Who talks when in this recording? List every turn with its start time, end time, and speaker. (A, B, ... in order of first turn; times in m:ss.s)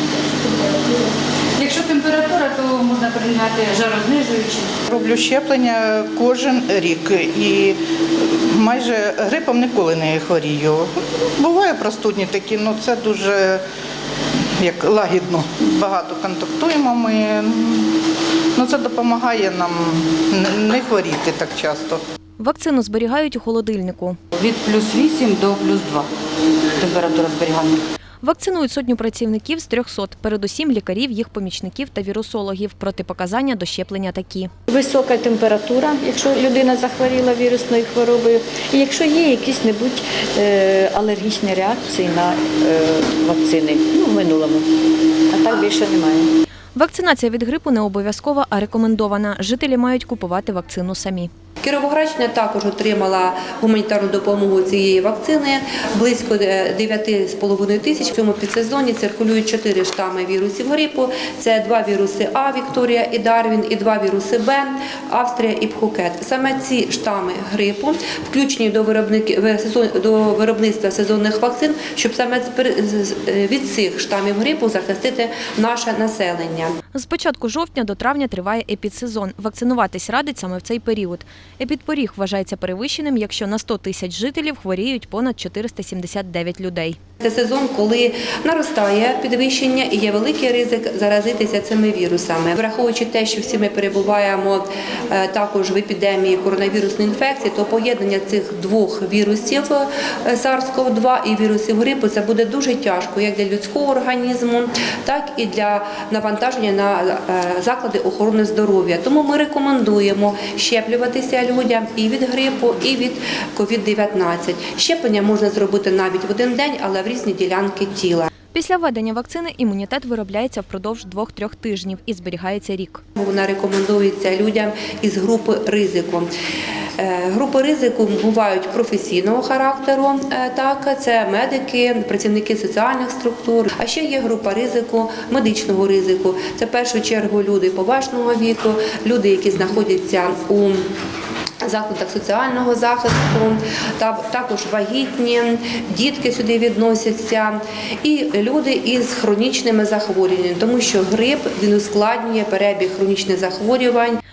0:00.4-0:04.8 A
0:04.9-0:13.6 B
0:14.6-0:17.9 B
0:18.6-0:22.0 B
0:22.4-0:24.2 C
0:24.3-0:26.1 A
0:26.7-0:27.8 A
0:28.2-0:34.5 C
0:34.7-0:44.7 D
0:45.3-0:46.3 D
0:46.8-0:51.3 C
0:51.6-1:16.8 E
1:16.9-1:27.0 C
1:27.2-1:58.3 E
1:58.5-2:03.0 C
2:03.2-2:06.3 E
2:07.0-2:20.8 E
2:21.6-2:34.2 E